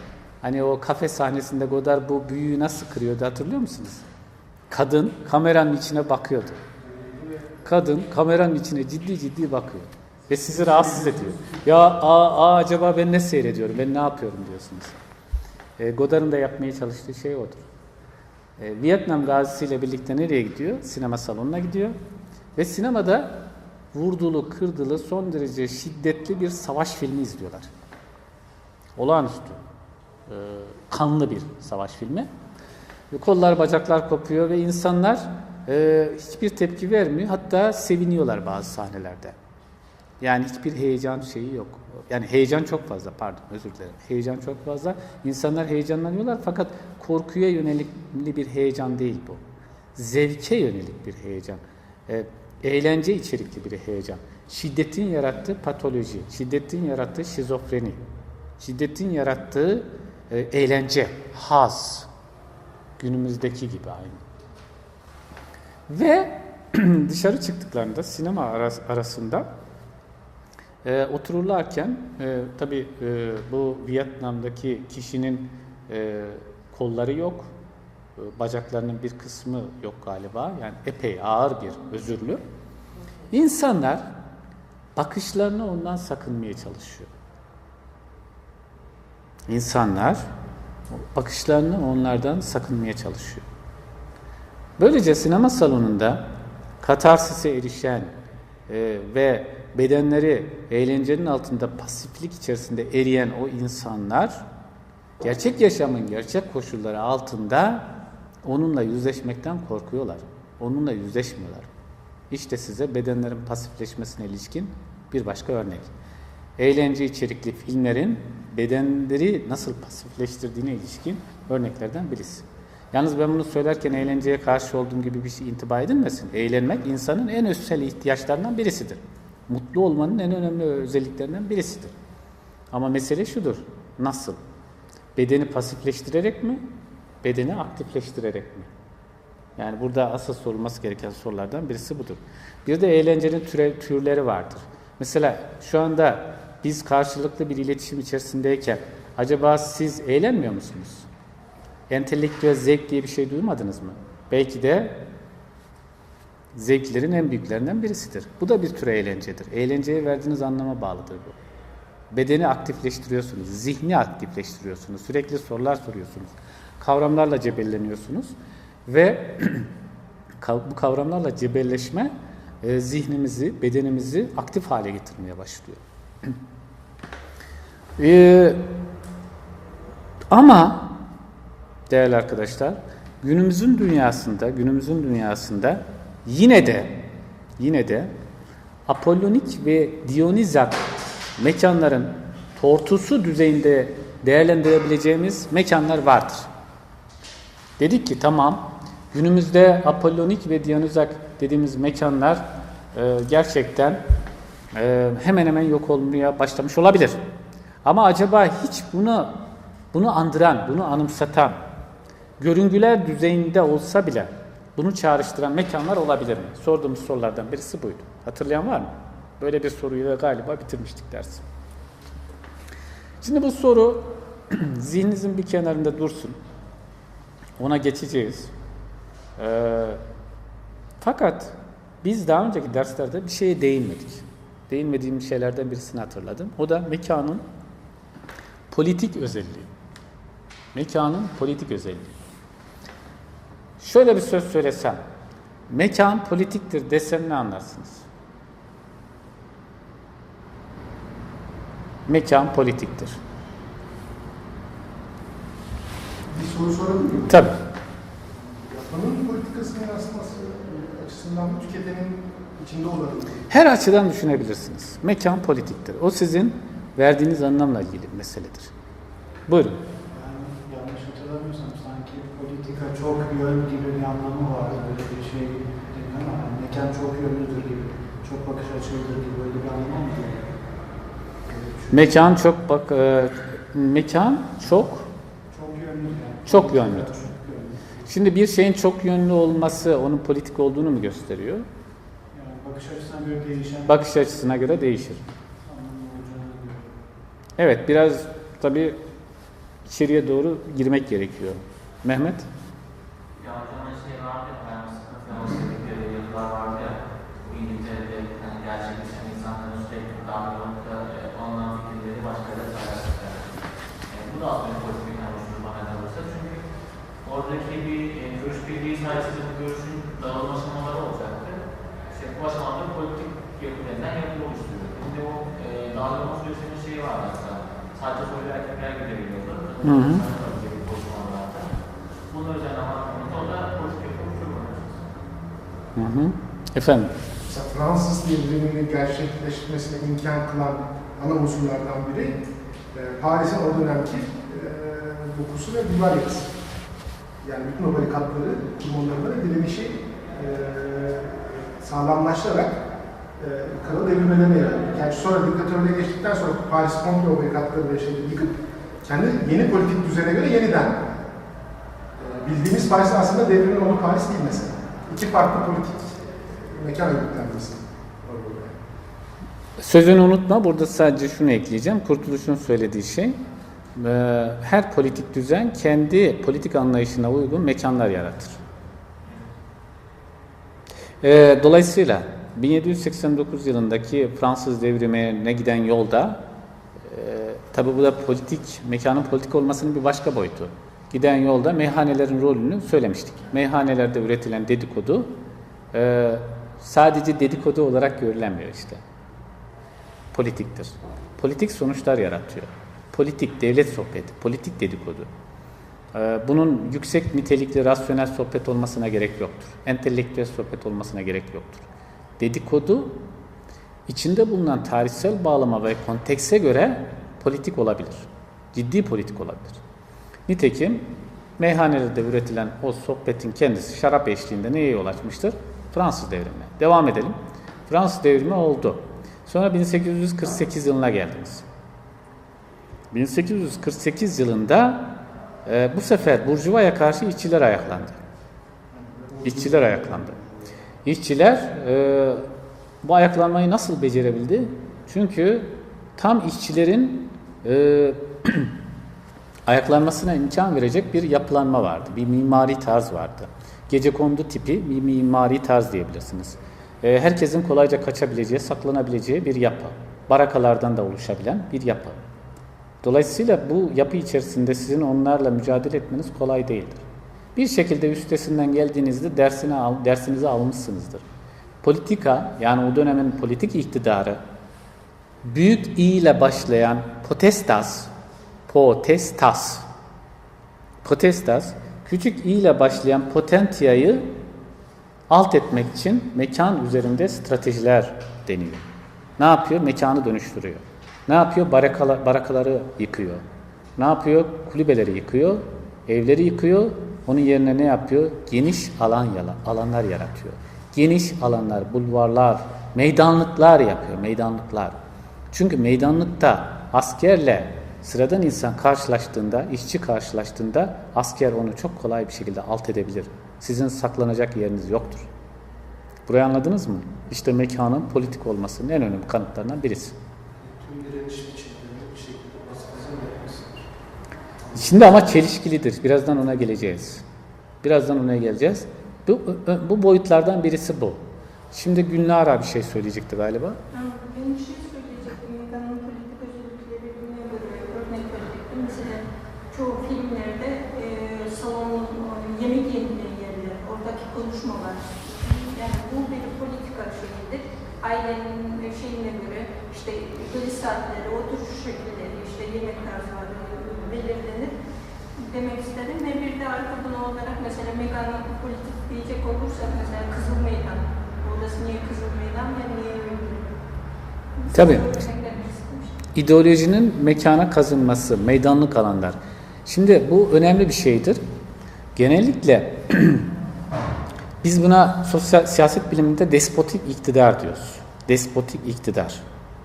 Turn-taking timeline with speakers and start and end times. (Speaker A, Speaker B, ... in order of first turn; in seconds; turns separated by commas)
Speaker A: 0.4-4.0, Speaker A: 4.7-6.6, Speaker B: 7.0-7.4, Speaker A: 7.6-15.0, Speaker A: 15.8-17.6, Speaker A: 18.6-21.9, Speaker A: 22.6-27.7, Speaker A: 29.0-29.6, Speaker A: 30.3-32.3, Speaker A: 33.1-39.3, Speaker A: 40.2-49.4, Speaker A: 50.0-58.0, Speaker A: 58.6-62.1, Speaker A: 63.0-64.2, Speaker A: 65.9-69.5, Speaker A: 70.8-77.5, Speaker A: 78.2-82.4, Speaker A: 83.3-84.1, Speaker A: 85.0-87.1, Speaker A: 89.5-90.2, Speaker A: 90.9-93.4, Speaker A: 94.8-98.1, Speaker A: 98.7-104.4, Speaker A: 105.2-111.7, Speaker A: 112.3-115.9, Speaker A: 116.6-131.9, Speaker A: 132.7-134.4, Speaker A: 135.2-136.6, Speaker A: 137.2-138.7, Speaker A: 139.6-151.1, Speaker A: 151.9-155.0, Speaker A: 156.5-161.3, Speaker A: 162.1-168.3, Speaker A: 168.9-169.7, Speaker A: 170.4-176.4, Speaker A: 178.0-178.8, Speaker A: 180.3-181.1, Speaker A: 181.9-187.0, Speaker A: 187.6-188.1, Speaker A: 188.9-190.8, Speaker A: 191.4-196.5, Speaker A: 197.8-204.0, Speaker A: 204.7-207.3, Speaker A: 207.8-211.6, Speaker A: 212.4-221.4, Speaker A: 223.2-226.4, Speaker A: 227.6-228.5, Speaker A: 229.4-230.0, Speaker A: 231.0-237.4, Speaker A: 238.7-239.7, Speaker A: 240.7-242.1, Speaker A: 243.8-245.0, Speaker A: 245.7-248.0, Speaker A: 252.1-253.2, Speaker C: 256.3-257.4, Speaker A: 257.3-257.6, Speaker C: 258.7-263.5, Speaker A: 263.5-268.7, Speaker A: 269.5-269.8, Speaker B: 270.1-280.5, Speaker B: 281.5-282.3, Speaker A: 281.9-285.1, Speaker B: 285.5-288.0, Speaker A: 286.4-287.1, Speaker A: 288.1-291.6, Speaker B: 292.3-294.0, Speaker A: 293.9-295.2, Speaker B: 295.6-296.9, Speaker A: 297.6-299.0, Speaker A: 299.9-302.5, Speaker D: 303.4-313.6, Speaker D: 314.1-316.6, Speaker D: 317.2-331.7, Speaker A: 329.8-330.2, Speaker D: 332.3-335.0, Speaker A: 335.9-337.1, Speaker C: 337.5-342.4, Speaker C: 342.9-346.5, Speaker C: 347.4-352.8, Speaker C: 353.4-361.2, Speaker C: 362.2-368.8, Speaker A: 369.8-373.4, Speaker A: 373.9-378.6, Speaker A: 381.2-386.4, Speaker A: 387.0-395.4, Speaker A: 395.9-399.0, Speaker A: 400.3-405.3, Speaker A: 406.1-411.9, Speaker A: 412.4-413.2, Speaker A: 414.1-419.8, Speaker A: 420.5-427.4, Speaker A: 427.9-431.6, Speaker A: 433.1-438.2, Speaker B: 438.9-440.4, Speaker A: 439.4-440.4, Speaker A: 441.0-442.5, Speaker A: 443.0-448.7, Speaker A: 449.7-462.2, Speaker A: 463.0-467.0, Speaker A: 467.6-471.2, Speaker A: 471.8-474.4, Speaker A: 475.4-478.1, Speaker A: 478.7-479.9, Speaker A: 481.0-484.3, Speaker A: 485.3-488.8, Speaker A: 489.4-493.4, Speaker A: 494.0-505.0, Speaker A: 505.5-515.3, Speaker A: 516.3-520.1, Speaker B: 520.6-523.9, Speaker B: 524.7-525.1, Speaker A: 524.7-527.2, Speaker A: 527.8-533.8, Speaker E: 533.9-554.7, Speaker E: 555.4-563.7, Speaker E: 564.6-566.1, Speaker A: 564.7-565.2, Speaker A: 566.3-571.4, Speaker A: 572.1-573.5, Speaker A: 574.6-579.4